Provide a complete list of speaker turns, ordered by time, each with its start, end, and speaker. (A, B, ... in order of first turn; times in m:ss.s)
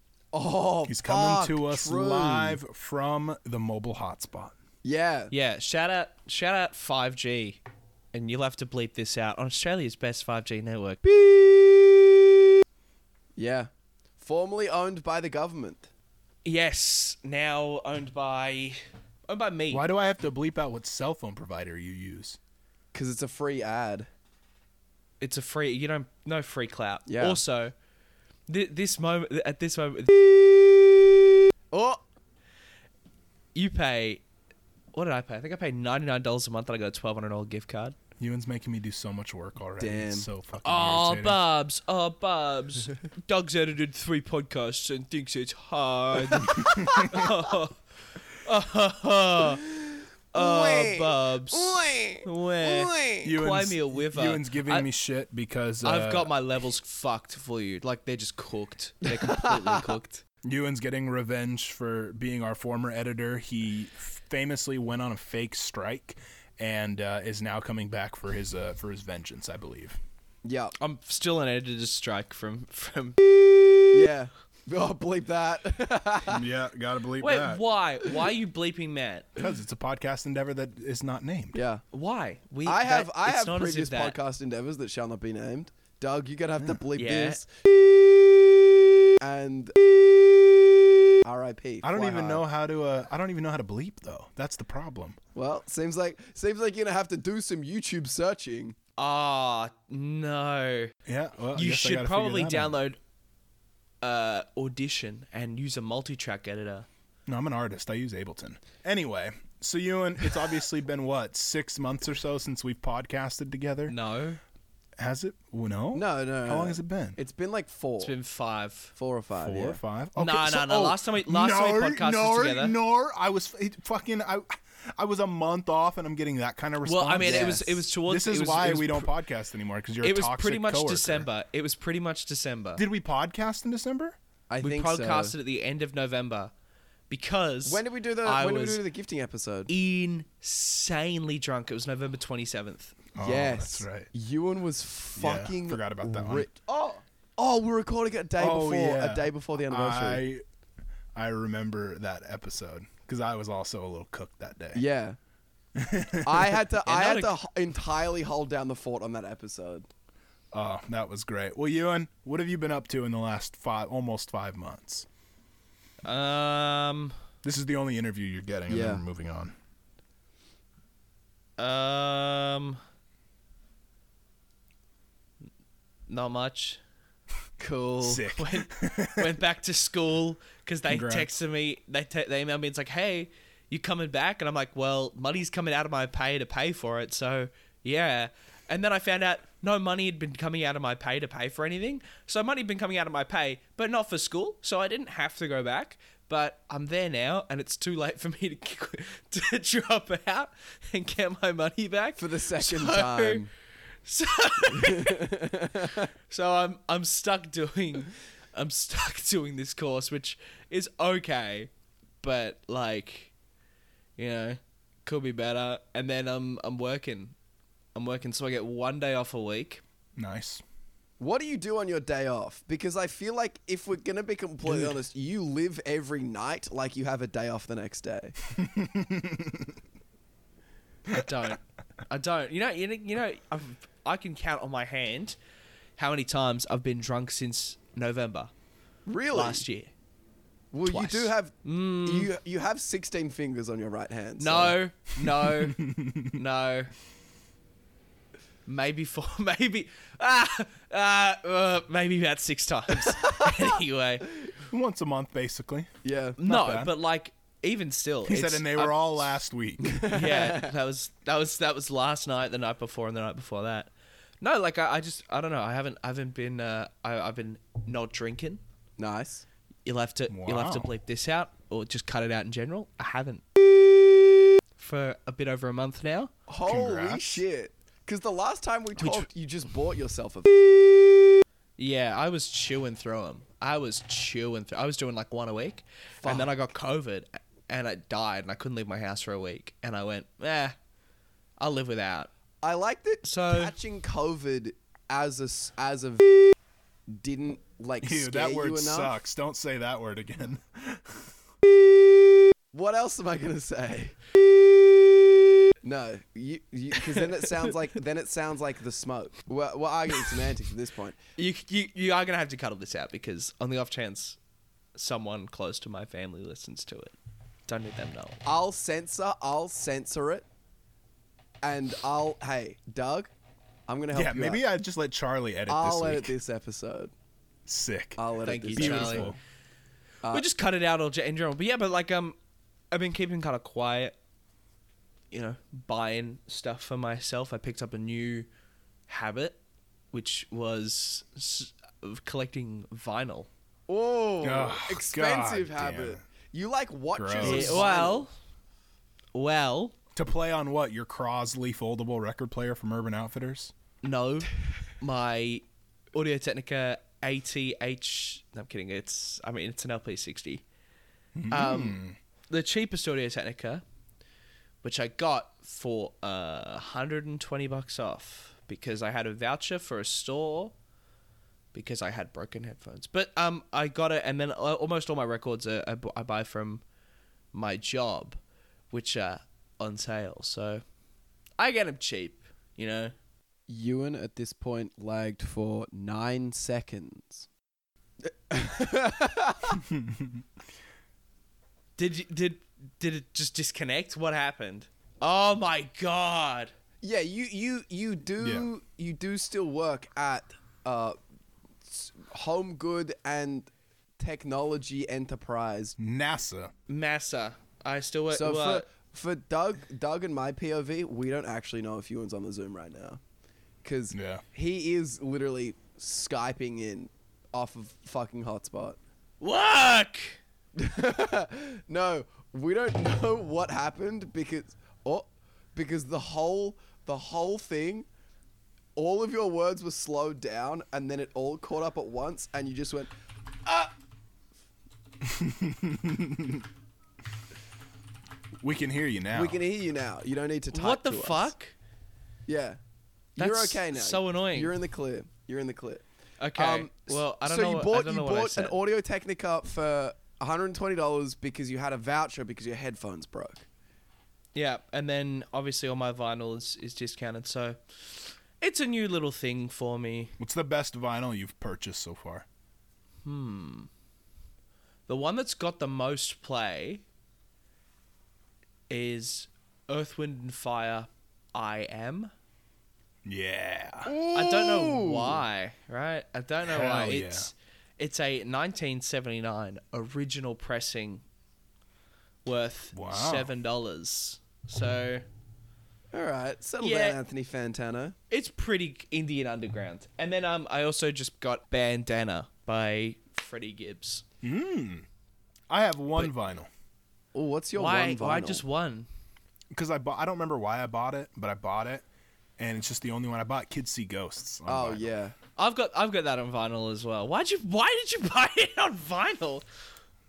0:00.3-0:02.6 A
0:00.8-0:04.5 B
0:04.8-0:05.3 A
0:05.3-0:07.6 C
0:08.1-0:11.0 C
0:11.0-0:12.3 A
0:13.4-0:15.9 A
0:16.4-0:19.8 C
0:19.7-0:22.4 B
0:22.9-0:24.1 A
0:25.2-0:27.7 C
0:27.1-0:27.4 A
0:28.5-0:30.1 C
0:31.7-0:32.0 A
0:33.5-0:34.2 C
0:34.9-0:38.0 C
0:38.2-0:41.4 B
0:39.8-0:40.3 A
0:40.6-0:47.8 C
0:46.4-0:47.3 A
0:48.3-0:49.6 C
0:49.6-0:53.4 A
0:50.3-0:54.9 C
0:53.2-0:56.3 B
0:55.8-1:00.2 C
0:59.1-0:59.8 A
1:00.4-1:10.0 B
1:10.4-1:10.8 A
1:10.8-1:13.3 C
1:13.9-1:16.4 A
1:16.3-1:17.6 B
1:17.2-1:19.3 C
1:19.4-1:21.6 B
1:21.5-1:21.8 A
1:21.9-1:24.2 C
1:22.6-1:32.4 A
1:26.9-1:27.4 C
1:31.8-1:35.2 B
1:35.3-1:38.8 A
1:39.0-1:40.9 C
1:41.0-1:42.8 B
1:41.6-1:43.0 C
1:44.0-1:46.9 C
1:47.3-1:53.9 B
1:53.9-1:54.4 C
1:55.0-1:57.2 B
1:55.9-1:58.1 A
1:58.0-1:58.9 C
1:59.0-1:59.8 A
1:59.4-2:11.3 B
2:00.2-2:02.8 C
2:06.8-2:09.1 C
2:07.2-2:07.8 A
2:10.0-2:12.8 C
2:12.8-2:14.2 B
2:14.5-2:15.3 A
2:14.6-2:16.5 C
2:17.1-2:18.8 C
2:17.6-2:19.7 A
2:19.7-2:22.9 C
2:23.1-2:24.1 B
2:23.2-2:30.2 A
2:25.2-2:26.5 B
2:28.4-2:30.4 B
2:31.1-2:34.8 B
2:34.8-2:35.2 A
2:35.8-2:36.6 B
2:36.2-2:39.9 A
2:36.8-2:37.3 C
2:40.5-2:45.1 B
2:46.0-2:47.2 C
2:47.4-2:49.5 B
2:48.7-2:49.0 A
2:51.6-2:52.8 C
2:56.1-2:56.8 C
2:57.6-2:58.2 A
2:58.0-2:59.3 B
2:58.3-3:23.4 C
3:00.9-3:01.3 B
3:22.2-3:23.5 A
3:24.0-3:31.7 C
3:24.7-3:26.1 A
3:32.2-3:33.3 C
3:34.2-3:37.3 C
3:37.9-3:39.8 C
3:40.2-3:40.6 B
3:41.2-3:48.4 A
3:44.6-3:44.9 B
3:48.5-3:49.7 B
3:51.1-3:55.4 C
3:56.0-3:58.5 C
3:59.1-3:59.6 A
3:59.3-3:59.9 C
4:00.7-4:04.8 A
4:00.8-4:02.3 C
4:04.4-4:05.8 C
4:05.3-4:06.4 B
4:06.3-4:06.9 C
4:08.7-4:14.3 C
4:13.0-4:13.7 A
4:14.7-4:16.9 B
4:16.0-4:16.4 A
4:16.4-4:19.3 C
4:18.2-4:20.1 B
4:19.8-4:20.7 A
4:20.1-4:28.6 C
4:29.0-4:29.4 A
4:29.8-4:33.4 C
4:30.3-4:30.9 B
4:34.8-4:36.3 C
4:36.5-4:41.4 A
4:36.6-4:37.4 B
4:41.8-4:50.8 C
4:46.2-4:46.5 A
4:51.6-4:52.3 C
4:52.6-4:56.5 A
4:53.2-4:53.7 C
4:57.1-4:59.1 A
4:58.0-5:01.3 B
5:01.6-5:11.2 A
5:11.4-5:14.4 C
5:15.0-5:17.1 C
5:17.7-5:18.4 C
5:18.4-5:20.4 A
5:21.6-5:23.3 A
5:23.9-5:24.6 A
5:24.1-5:26.4 B
5:25.7-5:27.1 A
5:27.7-5:28.2 B
5:28.2-5:29.3 A
5:28.4-5:29.3 C
5:28.8-5:29.4 B
5:30.3-5:32.4 C
5:32.9-5:34.1 C
5:35.3-5:38.5 C
5:39.1-5:39.6 C
5:40.1-5:43.5 C
5:43.9-5:48.3 A
5:44.4-5:46.2 B
5:47.1-5:47.9 B
5:47.4-5:48.3 C
5:49.3-5:50.0 C
5:50.1-5:53.7 B
5:54.0-6:00.6 C
6:01.4-6:02.2 B
6:01.5-6:03.8 C
6:04.8-6:10.7 C
6:11.7-6:16.8 C
6:17.5-6:18.4 C
6:18.9-6:20.8 C
6:21.6-6:23.1 C
6:23.7-6:27.5 A
6:28.5-6:29.8 A
6:29.8-6:30.4 B
6:32.0-6:36.7 C
6:37.0-6:41.2 A
6:38.4-6:38.7 B
6:41.8-6:46.0 A
6:46.0-6:46.7 B
6:46.9-6:48.9 C
6:48.3-6:53.2 A
6:53.8-6:59.0 A
6:54.1-6:54.4 B
6:59.4-7:00.4 C
7:00.8-7:08.1 A
7:09.0-7:13.1 A
7:13.6-7:13.9 A
7:15.2-7:16.6 B
7:18.6-7:19.6 B
7:19.3-7:21.5 A
7:20.7-7:21.8 C
7:22.5-7:22.8 A
7:23.4-7:24.7 C
7:23.4-7:26.0 A
7:26.4-7:28.8 C
7:26.5-7:33.6 A
7:34.5-7:40.4 C
7:40.4-7:42.5 B
7:43.2-7:43.9 C
7:45.1-7:47.0 C
7:48.9-7:52.3 C
7:53.2-7:54.1 B
7:54.0-7:55.4 A
7:54.3-8:01.2 C
7:56.6-7:57.5 B
8:02.4-8:05.2 C
8:02.9-8:03.5 B
8:06.1-8:08.2 A
8:06.8-8:07.2 C
8:08.3-8:14.2 C
8:14.4-8:15.0 B
8:15.7-8:16.7 B
8:17.3-8:18.6 A
8:17.8-8:19.1 C
8:19.7-8:22.0 B
8:22.6-8:25.1 B
8:24.7-8:25.4 A
8:25.6-8:29.6 C